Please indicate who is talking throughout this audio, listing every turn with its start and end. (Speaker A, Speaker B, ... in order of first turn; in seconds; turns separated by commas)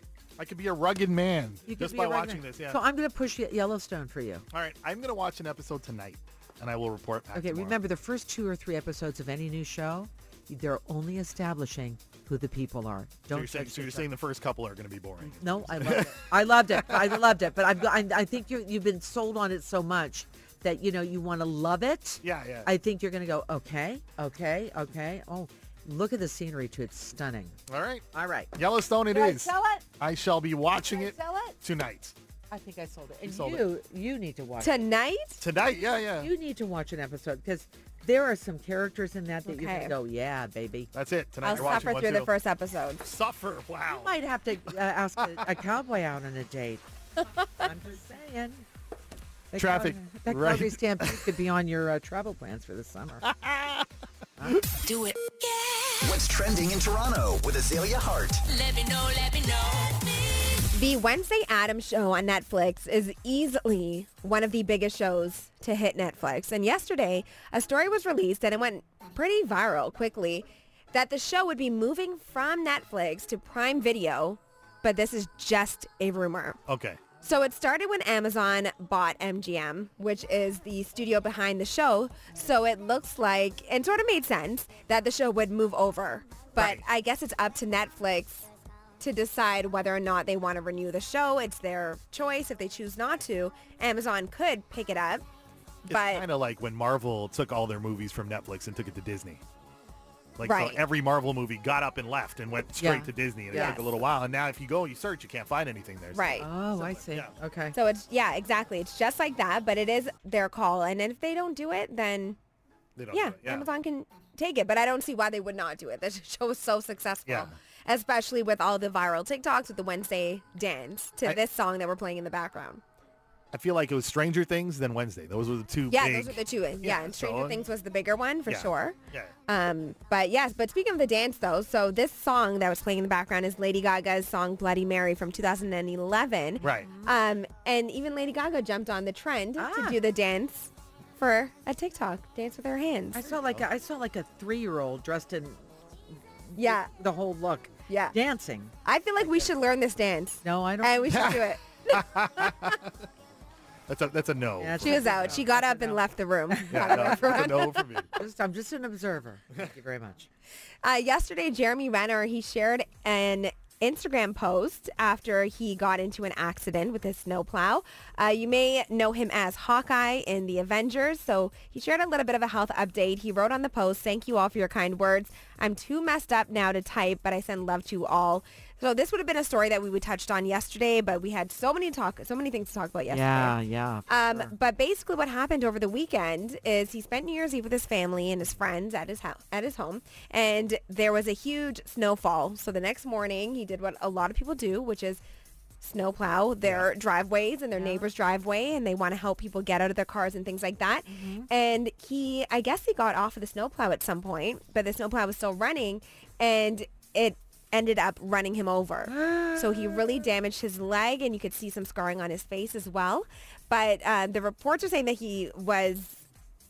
Speaker A: 0.4-2.8, Speaker B: 1.7-4.5, Speaker A: 4.5-7.8, Speaker B: 7.3-14.1, Speaker A: 13.3-17.3, Speaker B: 15.2-27.6, Speaker A: 22.2-22.7, Speaker A: 27.7-32.1, Speaker B: 28.1-28.5, Speaker B: 29.1-29.9, Speaker B: 30.8-31.6, Speaker B: 32.5-34.9, Speaker A: 33.2-33.7, Speaker C: 34.6-35.4, Speaker A: 35.4-36.3, Speaker B: 36.2-40.9, Speaker C: 39.5-40.0, Speaker A: 40.9-42.3, Speaker C: 41.4-43.0, Speaker B: 41.5-41.9, Speaker A: 43.0-44.2, Speaker B: 43.9-46.8, Speaker A: 45.2-45.5, Speaker B: 47.6-48.6, Speaker B: 49.5-53.3, Speaker A: 49.5-51.4, Speaker A: 53.2-53.9, Speaker B: 54.4-54.6, Speaker D: 54.8-56.2, Speaker E: 56.0-58.4, Speaker D: 58.5-60.6, Speaker C: 60.7-76.6, Speaker A: 76.7-77.0, Speaker C: 77.2-88.5, Speaker A: 86.6-86.8, Speaker C: 89.0-95.2, Speaker A: 95.9-99.4, Speaker C: 95.9-96.3, Speaker A: 100.4-107.3, Speaker C: 100.4-100.8, Speaker B: 102.8-103.8, Speaker C: 103.5-103.8, Speaker C: 106.1-106.5, Speaker B: 106.4-107.8, Speaker C: 107.7-112.4, Speaker A: 113.0-113.7, Speaker C: 113.1-122.8, Speaker A: 117.3-117.6, Speaker A: 123.5-127.7, Speaker C: 125.9-129.0, Speaker A: 128.5-129.3, Speaker C: 129.5-143.3, Speaker A: 136.6-136.9, Speaker B: 136.7-137.1, Speaker B: 139.6-140.0, Speaker B: 143.1-145.6, Speaker B: 146.5-149.5, Speaker C: 146.6-146.9, Speaker C: 147.9-148.2, Speaker C: 148.8-152.7, Speaker B: 150.4-151.4, Speaker A: 151.1-153.0, Speaker A: 153.9-155.4, Speaker B: 154.6-160.3, Speaker C: 154.8-157.8, Speaker A: 156.7-158.1, Speaker C: 160.8-183.6, Speaker B: 183.1-184.5, Speaker C: 184.1-195.2, Speaker C: 195.8-216.2, Speaker B: 197.8-198.1, Speaker B: 201.1-201.5, Speaker B: 209.1-210.2